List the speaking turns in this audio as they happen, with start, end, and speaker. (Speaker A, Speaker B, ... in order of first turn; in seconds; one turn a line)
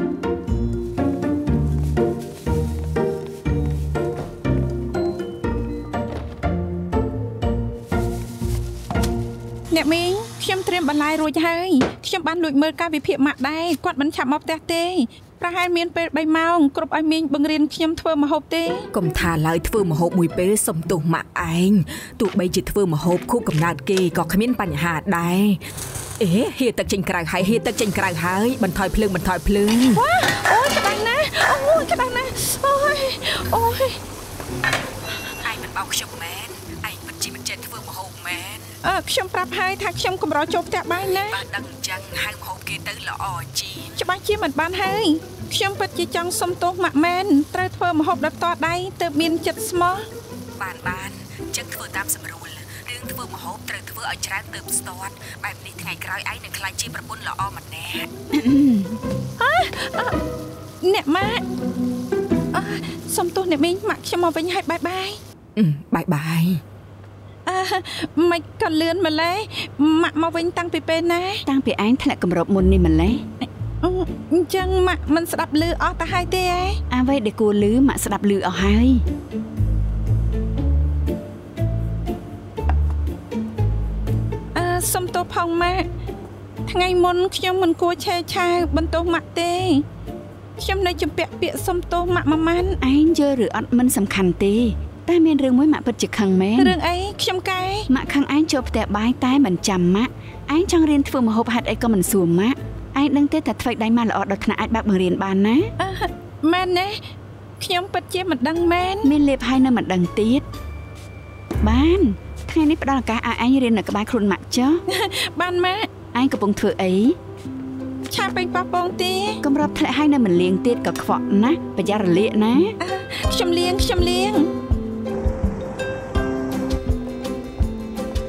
Speaker A: 9.7-18.9
Speaker B: 18.9-25.6
Speaker B: 26.2-30.0
Speaker A: 29.8-34.0
Speaker B: 35.4-38.8
Speaker A: 38.8-41.4
Speaker B: 41.2-44.0
Speaker A: 44.0-50.0
Speaker B: 50.6-58.1
Speaker C: 58.3-59.0
Speaker A: 59.4-60.1
Speaker A: 60.8-61.4
Speaker A: 62.5-65.2
Speaker B: 65.6-66.6
Speaker A: 67.5-71.4
Speaker C: 71.5-73.2
Speaker A: 73.4-76.8
Speaker C: 76.9-79.0
Speaker A: 84.5-85.9
Speaker A: 86.7-89.8
Speaker A: 90.6-92.8
Speaker C: 92.8-96.8
Speaker A: 96.6-97.9
Speaker C: 97.9-105.7
Speaker A: 105.8-107.0
Speaker A: 107.6-109.1
Speaker C: 109.0-110.4
Speaker C: 111.6-114.8
Speaker A: 114.9-115.9
Speaker C: 116.1-117.2
Speaker A: 118.1-119.4
Speaker C: 119.4-122.8
Speaker A: 122.8-124.5